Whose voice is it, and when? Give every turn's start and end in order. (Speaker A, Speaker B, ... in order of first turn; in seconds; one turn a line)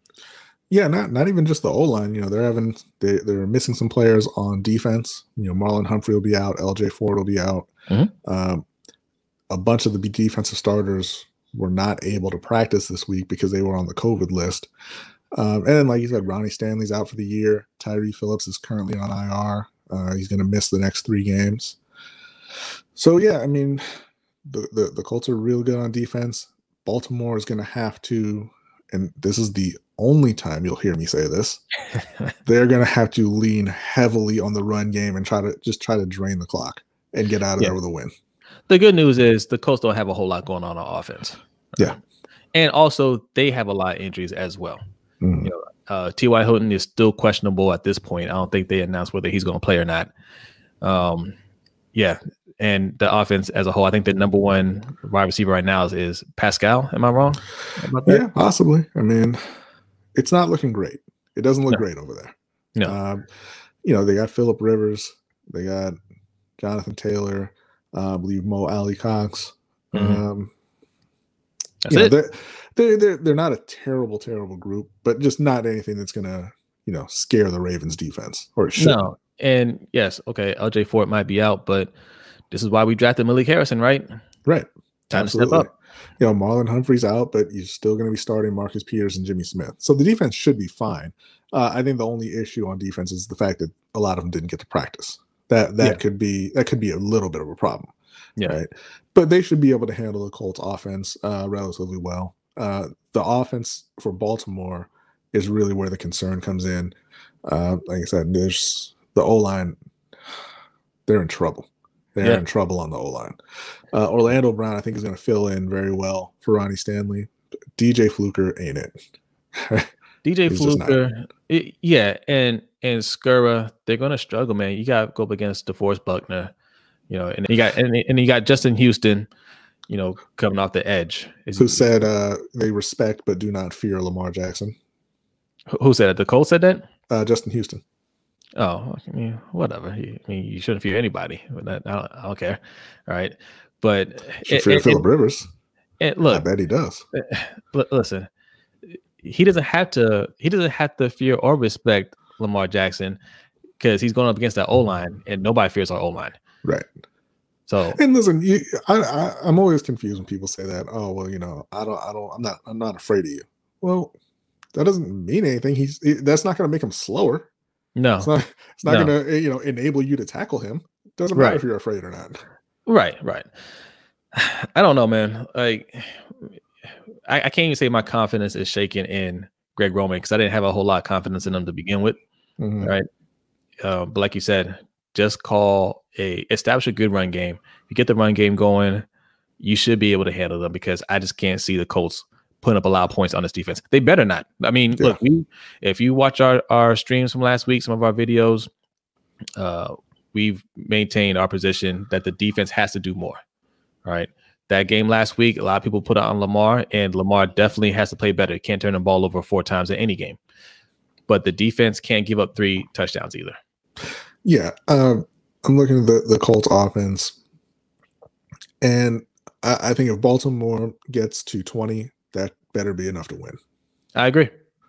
Speaker A: 0.7-7.7
Speaker A: 8.2-8.6
Speaker A: 9.5-14.7
Speaker A: 15.3-21.8
Speaker A: 23.0-23.8
Speaker A: 24.4-31.6
Speaker A: 32.5-38.1
Speaker B: 38.7-42.0
Speaker B: 42.5-44.8
Speaker A: 45.2-45.5
Speaker B: 45.4-50.1
Speaker B: 50.8-51.4
Speaker B: 51.9-58.2
Speaker A: 58.1-59.4
Speaker A: 60.1-63.2
Speaker A: 63.8-66.0
Speaker A: 66.6-70.5
Speaker B: 69.9-70.2
Speaker B: 71.8-72.1
Speaker A: 71.9-79.0
Speaker B: 78.8-81.9
Speaker B: 82.5-84.1
Speaker A: 84.5-97.9
Speaker B: 85.1-85.7
Speaker A: 98.5-109.8
Speaker A: 111.1-113.4
Speaker A: 113.9-119.0
Speaker A: 119.6-119.9
Speaker B: 120.2-126.5
Speaker A: 120.5-121.0
Speaker B: 127.1-129.3
Speaker B: 129.9-131.9
Speaker A: 131.6-134.8
Speaker B: 135.7-136.8
Speaker A: 137.1-137.8
Speaker B: 138.6-145.0
Speaker A: 144.5-145.5
Speaker B: 146.0-146.5
Speaker A: 146.3-147.0
Speaker B: 147.1-148.3
Speaker B: 149.2-153.2
Speaker B: 153.8-156.3
Speaker B: 157.7-158.0
Speaker A: 157.9-164.1
Speaker A: 164.8-167.5
Speaker B: 168.0-168.3
Speaker A: 168.2-172.4
Speaker B: 168.9-169.1
Speaker B: 171.3-171.6
Speaker B: 172.9-173.5
Speaker B: 174.3-176.4
Speaker B: 177.3-182.2
Speaker A: 182.6-182.9
Speaker B: 182.8-183.1
Speaker B: 183.8-189.1
Speaker B: 189.6-198.7
Speaker B: 199.6-203.4
Speaker B: 204.1-210.4
Speaker B: 211.3-213.6
Speaker A: 214.4-217.4
Speaker A: 218.8-223.6
Speaker B: 224.2-224.5